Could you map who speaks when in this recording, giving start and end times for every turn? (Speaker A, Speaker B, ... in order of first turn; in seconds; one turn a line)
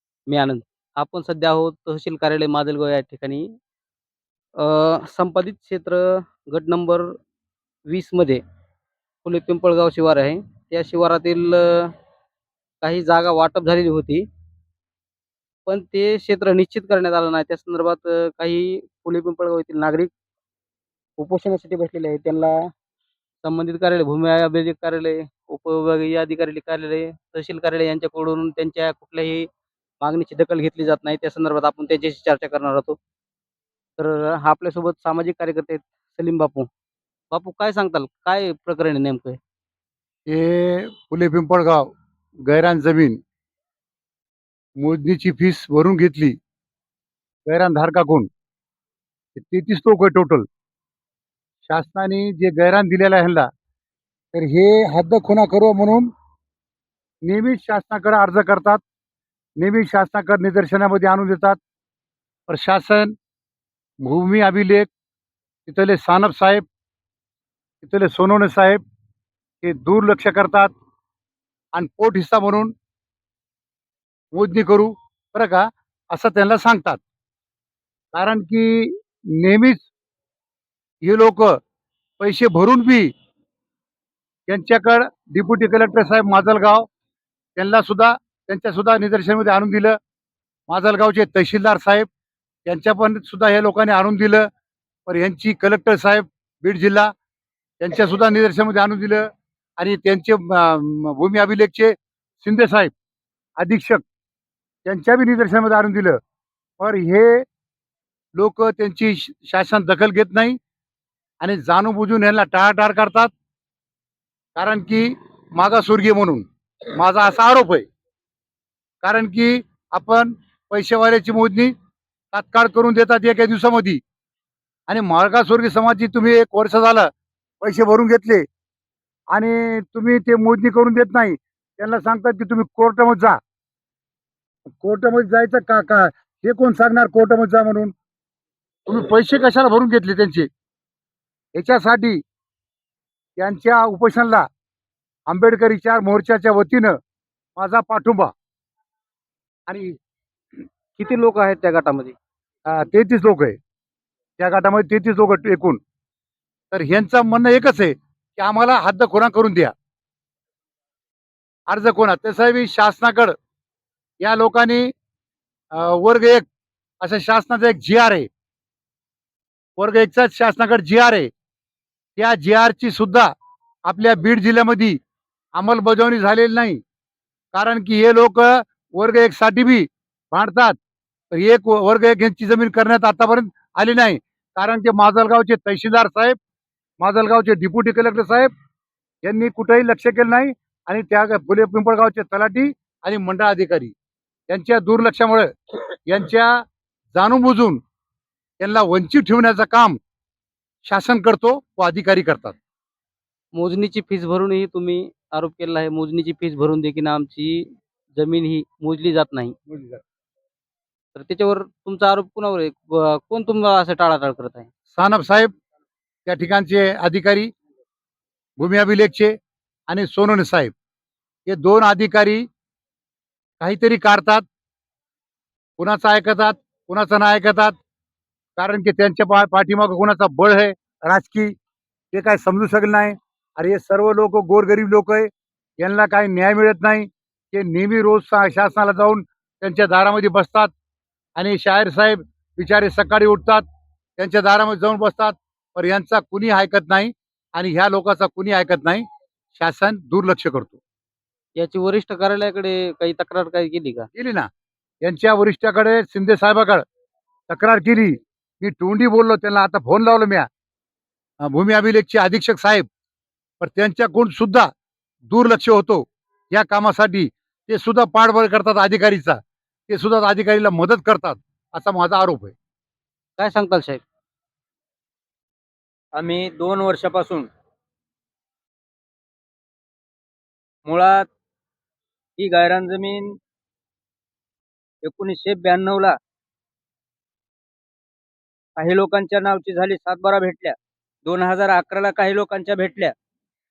Speaker A: 0.3-3.5
Speaker A: 4.6-7.1
Speaker A: 7.8-8.4
Speaker A: 9.2-11.9
Speaker A: 12.8-14.2
Speaker A: 15.7-20.1
Speaker A: 21.2-22.7
Speaker A: 23.4-29.5
Speaker A: 30.0-33.0
Speaker A: 34.0-36.7
Speaker A: 37.3-39.4
Speaker B: 40.2-41.9
Speaker B: 42.5-43.2
Speaker B: 44.8-46.3
Speaker B: 47.5-48.3
Speaker B: 49.3-50.4
Speaker B: 51.7-53.5
Speaker B: 54.3-56.1
Speaker B: 57.2-58.8
Speaker B: 59.6-61.6
Speaker B: 62.5-63.1
Speaker B: 64.0-64.9
Speaker B: 65.7-66.6
Speaker B: 67.8-68.8
Speaker B: 69.6-70.7
Speaker B: 71.7-72.7
Speaker B: 74.3-77.0
Speaker B: 78.1-79.8
Speaker B: 81.0-81.5
Speaker B: 82.2-83.1
Speaker B: 84.5-86.9
Speaker B: 87.5-90.0
Speaker B: 90.7-92.0
Speaker B: 92.7-94.5
Speaker B: 95.0-97.1
Speaker B: 97.8-102.9
Speaker B: 103.6-104.0
Speaker B: 104.8-106.2
Speaker B: 106.8-107.4
Speaker B: 108.3-110.5
Speaker B: 111.4-113.3
Speaker B: 114.5-116.4
Speaker B: 117.0-117.8
Speaker B: 119.0-121.7
Speaker B: 122.3-124.0
Speaker B: 124.9-127.1
Speaker B: 127.6-128.4
Speaker B: 129.3-133.4
Speaker B: 134.7-137.9
Speaker B: 138.8-140.5
Speaker B: 141.5-142.2
Speaker B: 143.4-144.4
Speaker B: 145.3-146.9
Speaker B: 147.6-148.3
Speaker B: 149.7-150.0
Speaker A: 151.0-152.2
Speaker B: 152.7-153.6
Speaker B: 154.4-155.8
Speaker B: 156.7-159.7
Speaker B: 161.7-163.3
Speaker B: 164.2-164.9
Speaker B: 165.7-166.4
Speaker B: 167.0-168.3
Speaker B: 169.8-171.3
Speaker B: 172.2-173.3
Speaker B: 173.8-175.0
Speaker B: 175.5-176.8
Speaker B: 177.5-180.8
Speaker B: 181.3-186.3
Speaker B: 187.0-188.5
Speaker B: 189.2-193.9
Speaker B: 194.5-195.5
Speaker B: 196.1-196.6
Speaker B: 197.1-197.8
Speaker B: 198.6-200.0
Speaker B: 200.8-202.6
Speaker A: 203.5-209.5
Speaker B: 209.7-210.0
Speaker A: 211.1-214.7
Speaker B: 214.9-215.5
Speaker B: 216.2-217.5
Speaker B: 218.6-219.3
Speaker B: 219.9-220.7
Speaker B: 221.4-222.4
Speaker B: 223.6-224.4
Speaker B: 225.8-227.8
Speaker B: 228.6-231.5
Speaker B: 232.1-235.3
Speaker B: 235.8-240.7
Speaker B: 241.3-243.6
Speaker B: 244.2-249.0
Speaker B: 249.5-250.8
Speaker A: 251.6-254.1
Speaker B: 254.1-254.5
Speaker B: 255.0-256.8
Speaker B: 257.5-260.5
Speaker B: 261.4-262.9
Speaker B: 263.6-264.7
Speaker B: 265.2-272.5
Speaker A: 273.4-274.0
Speaker C: 276.1-277.5
Speaker C: 280.8-281.3
Speaker C: 282.4-283.4
Speaker C: 285.0-286.1
Speaker C: 288.8-293.1